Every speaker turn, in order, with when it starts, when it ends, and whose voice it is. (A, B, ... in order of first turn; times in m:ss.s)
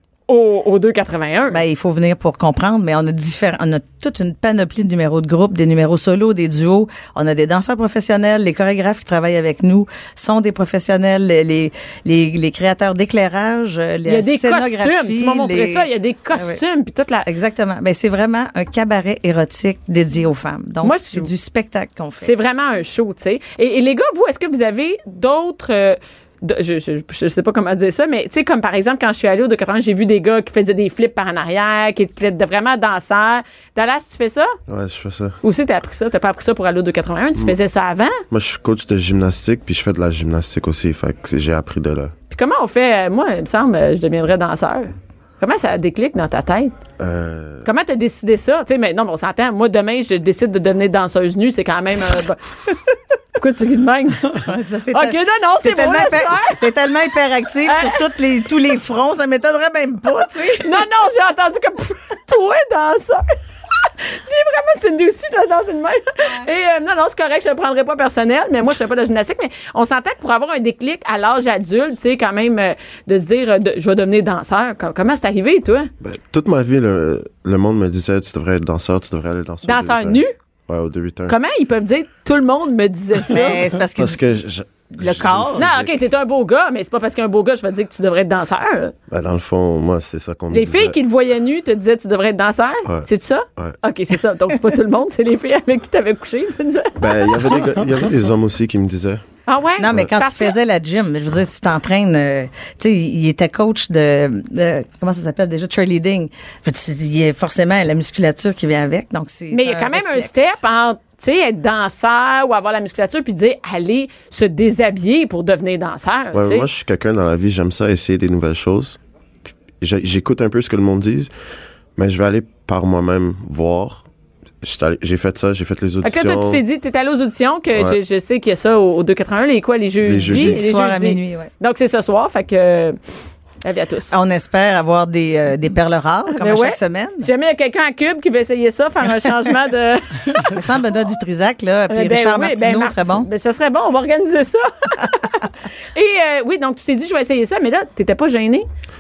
0:00.3-0:01.6 A
0:01.5-0:16.6 B
0:14.1-0:17.3 A
0:17.2-0:22.3 B
0:20.8-0:21.3 A
0:22.2-0:34.5 A
0:34.7-0:35.4 C
0:35.4-0:38.2 A
0:38.3-0:42.1 C
0:42.3-0:46.7 A
0:47.0-0:47.6 C
0:47.6-0:52.4 A
0:53.4-0:56.7 A
0:54.4-1:00.9 B
0:57.7-0:58.0 A
1:00.6-1:03.3 A
1:04.0-1:15.9 A
1:16.0-1:21.4 C
1:19.6-1:20.4 A
1:21.3-1:23.6 A
1:23.3-1:24.2 B
1:23.9-1:26.0 C
1:25.0-1:25.7 B
1:25.6-1:28.9 A
1:29.1-1:31.0 C
1:30.5-1:37.6 A
1:32.9-1:33.8 C
1:37.0-1:39.2 C
1:39.5-1:40.6 A
1:39.8-1:50.6 B
1:49.5-1:56.7 A
1:56.3-1:59.0 C
1:59.8-2:01.3 C
2:02.0-2:04.1 C
2:04.6-2:06.6 C
2:06.0-2:13.0 A
2:10.0-2:10.6 C
2:10.3-2:11.5 B
2:13.6-2:14.1 A
2:14.1-2:17.3 B
2:16.4-2:20.6 A
2:20.5-2:23.3 B
2:21.9-2:28.7 A